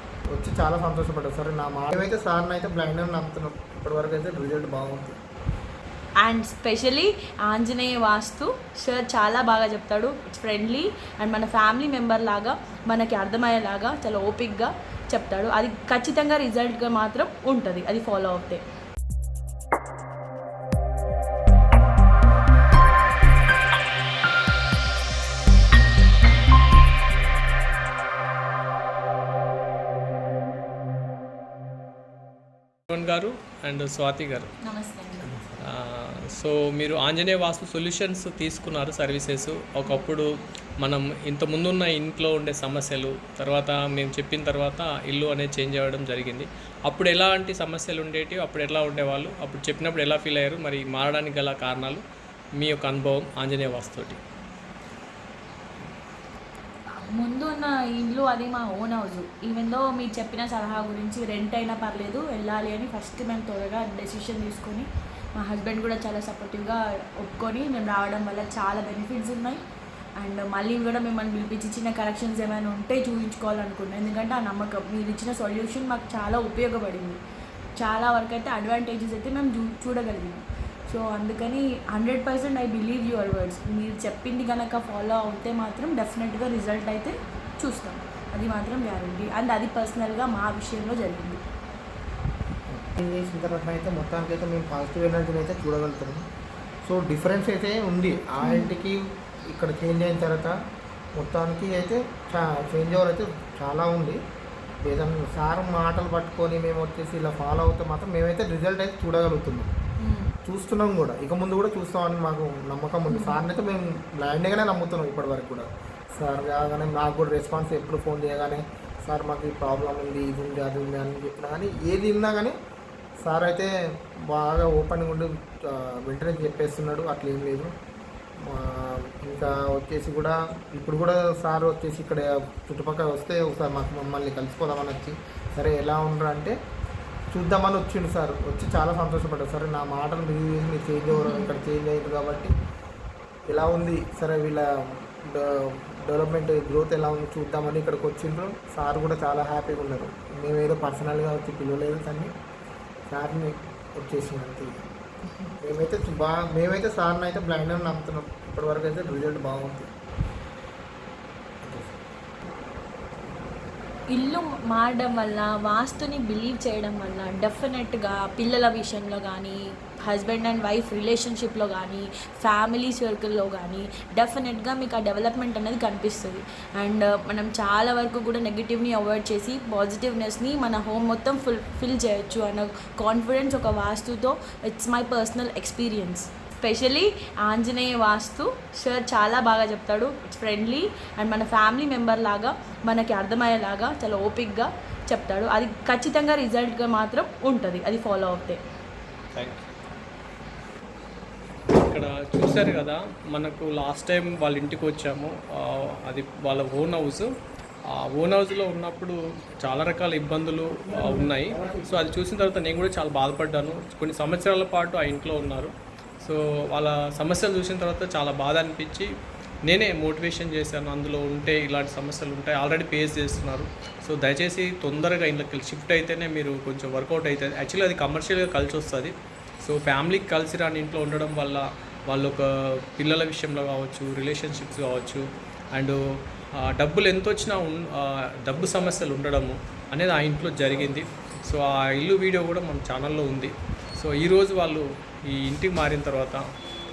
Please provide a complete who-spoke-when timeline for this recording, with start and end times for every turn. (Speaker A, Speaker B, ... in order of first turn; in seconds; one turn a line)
Speaker A: 0.3-5.2
Speaker B: 6.2-18.6
Speaker C: 32.9-34.5
Speaker B: 34.6-35.5
Speaker C: 35.6-40.3
Speaker C: 40.8-52.0
Speaker C: 52.6-54.2
Speaker B: 56.9-69.6
Speaker B: 70.2-77.2
Speaker B: 77.8-91.4
Speaker A: 92.7-96.2
Speaker A: 96.8-100.6
Speaker B: 98.4-98.7
Speaker A: 101.1-104.2
Speaker A: 104.8-109.7
Speaker B: 110.0-110.3
Speaker A: 110.4-122.5
Speaker B: 113.1-113.4
Speaker A: 123.2-127.7
Speaker A: 128.4-136.5
Speaker A: 137.3-142.5
Speaker B: 141.1-141.5
Speaker A: 143.5-152.3
Speaker A: 153.1-154.8
Speaker A: 155.6-159.9
Speaker A: 161.6-161.9
Speaker B: 164.1-198.6
Speaker C: 199.3-199.6
Speaker C: 201.7-207.3
Speaker C: 207.9-219.1
Speaker A: 210.9-211.8
Speaker C: 219.7-229.1
Speaker C: 229.6-236.0
Speaker C: 236.6-246.4